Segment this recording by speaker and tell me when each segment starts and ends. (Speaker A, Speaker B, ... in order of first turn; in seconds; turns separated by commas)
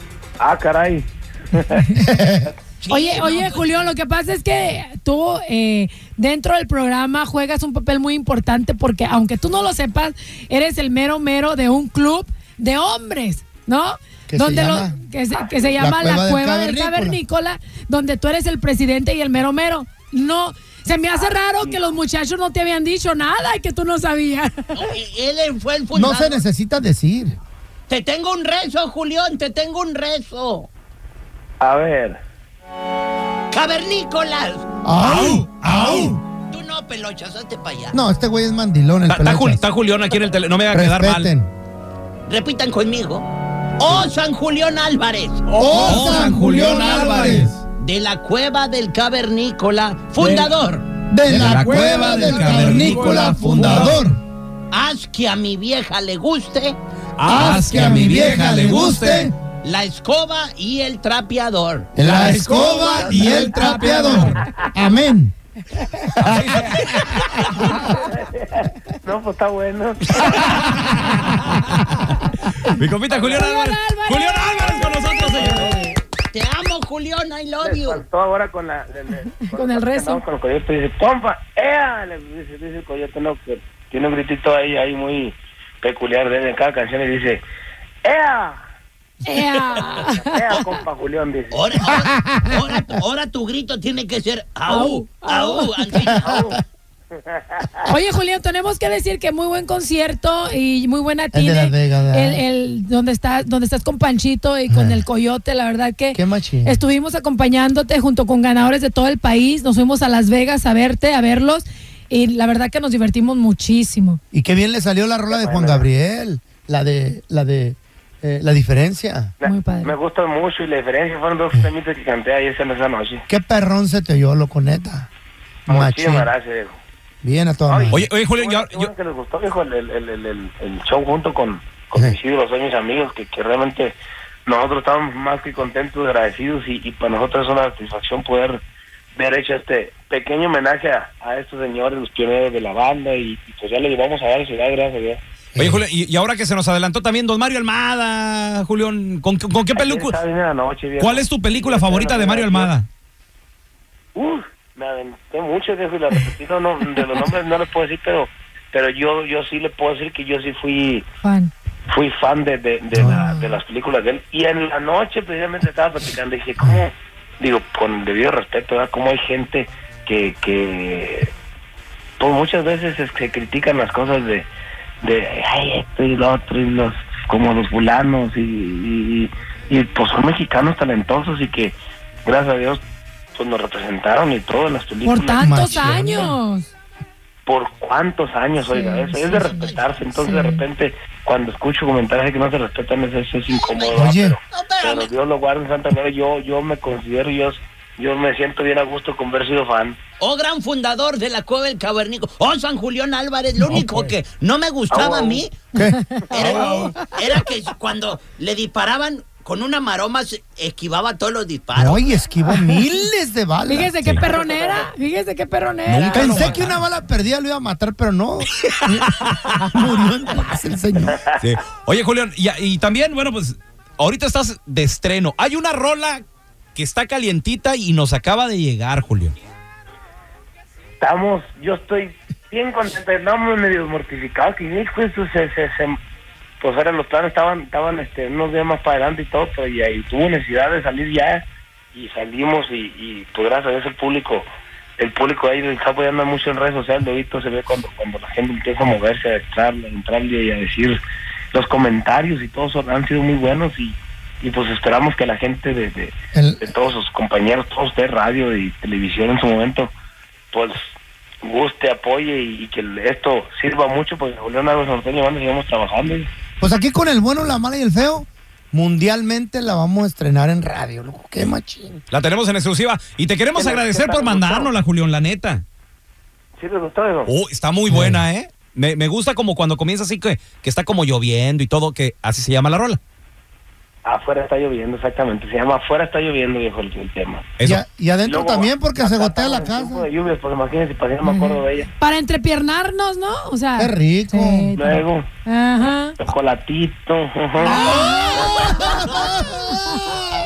Speaker A: 0.4-2.0, Speaker B: 2.0-2.5, Speaker C: 2.8-3.9, Speaker D: 2.9-24.9, Speaker B: 14.3-15.0, Speaker A: 15.3-15.7, Speaker B: 15.8-17.2, Speaker A: 21.3-21.9, Speaker C: 24.7-26.4, Speaker B: 25.9-27.4, Speaker C: 27.9-30.7, Speaker A: 31.6-32.2, Speaker C: 33.5-34.7, Speaker B: 34.8-36.2, Speaker E: 35.0-36.2, Speaker C: 36.5-38.0, Speaker B: 37.9-39.6, Speaker E: 39.1-41.3, Speaker B: 40.7-41.5, Speaker C: 42.3-45.7, Speaker E: 45.5-47.6, Speaker B: 45.5-47.5, Speaker C: 47.8-50.9, Speaker E: 50.2-50.6, Speaker B: 51.1-54.2, Speaker E: 51.2-54.1, Speaker C: 54.7-56.8, Speaker E: 57.2-59.3, Speaker B: 57.2-59.3, Speaker C: 59.6-63.3, Speaker B: 62.0-65.3, Speaker D: 62.4-64.4, Speaker E: 63.2-64.3, Speaker A: 64.2-64.7, Speaker B: 66.0-66.8, Speaker E: 66.2-67.1, Speaker C: 66.8-67.5, Speaker A: 67.7-70.7, Speaker D: 67.7-68.0, Speaker E: 70.2-72.0, Speaker E: 72.7-75.8, Speaker A: 73.1-73.5, Speaker D: 73.3-75.9, Speaker A: 75.4-75.9, Speaker C: 76.3-78.0, Speaker A: 77.6-87.4, Speaker D: 79.3-80.2, Speaker A: 88.0-88.6, Speaker D: 89.3-90.8, Speaker C: 89.5-89.9, Speaker A: 90.1-91.9, Speaker C: 91.5-96.3, Speaker B: 91.9-92.5, Speaker D: 94.7-95.8, Speaker B: 96.1-96.4, Speaker A: 96.2-96.6, Speaker A: 97.2-97.9, Speaker D: 97.9-114.2, Speaker B: 101.3-102.4, Speaker B: 104.7-105.0, Speaker B: 106.1-106.8, Speaker B: 114.3-119.3, Speaker A: 115.3-115.9, Speaker A: 119.4-123.2, Speaker D: 119.4-119.9, Speaker B: 123.3-125.1, Speaker A: 125.7-126.8, Speaker B: 125.7-126.3, Speaker B: 127.2-128.1, Speaker A: 127.7-138.6, Speaker E: 127.9-128.9, Speaker A: 139.2-145.2, Speaker B: 145.6-145.8, Speaker E: 145.6-150.2, Speaker A: 149.7-152.7, Speaker E: 151.0-152.9, Speaker A: 154.2-161.1, Speaker D: 161.2-161.5, Speaker A: 161.9-171.3, Speaker B: 162.9-163.2, Speaker D: 163.0-163.5, Speaker A: 172.2-174.5, Speaker A: 175.0-182.8, Speaker A: 183.3-185.9, Speaker D: 185.0-186.7, Speaker B: 185.4-186.3, Speaker A: 187.5-200.0, Speaker D: 188.7-190.6, Speaker C: 189.4-190.1, Speaker C: 193.5-195.1, Speaker B: 194.0-194.4, Speaker C: 200.2-205.6, Speaker B: 203.7-204.1, Speaker A: 204.9-205.5, Speaker B: 205.7-206.7, Speaker D: 205.8-206.2, Speaker A: 206.2-206.9, Speaker C: 206.3-212.1, Speaker B: 211.7-214.2, Speaker D: 212.5-212.8, Speaker D: 213.7-216.3, Speaker A: 214.3-214.9, Speaker E: 215.9-216.8, Speaker B: 216.1-221.2, Speaker A: 221.2-221.4, Speaker E: 221.4-229.3, Speaker A: 231.0-236.0, Speaker A: 236.6-244.5, Speaker A: 245.0-251.0, Speaker A: 251.5-259.9, Speaker B: 256.3-256.6, Speaker A: 260.5-260.9, Speaker A: 261.4-266.3, Speaker B: 266.6-272.0, Speaker E: 272.1-275.6, Speaker A: 273.6-274.7, Speaker A: 276.6-277.3, Speaker E: 277.3-283.0, Speaker B: 277.9-278.2, Speaker A: 284.1-287.5, Speaker B: 287.6-290.1, Speaker A: 288.2-291.9, Speaker D: 291.2-296.1, Speaker B: 293.8-294.7, Speaker A: 294.8-295.3, Speaker A: 296.2-298.7, Speaker D: 297.6-300.2, Speaker B: 297.7-300.2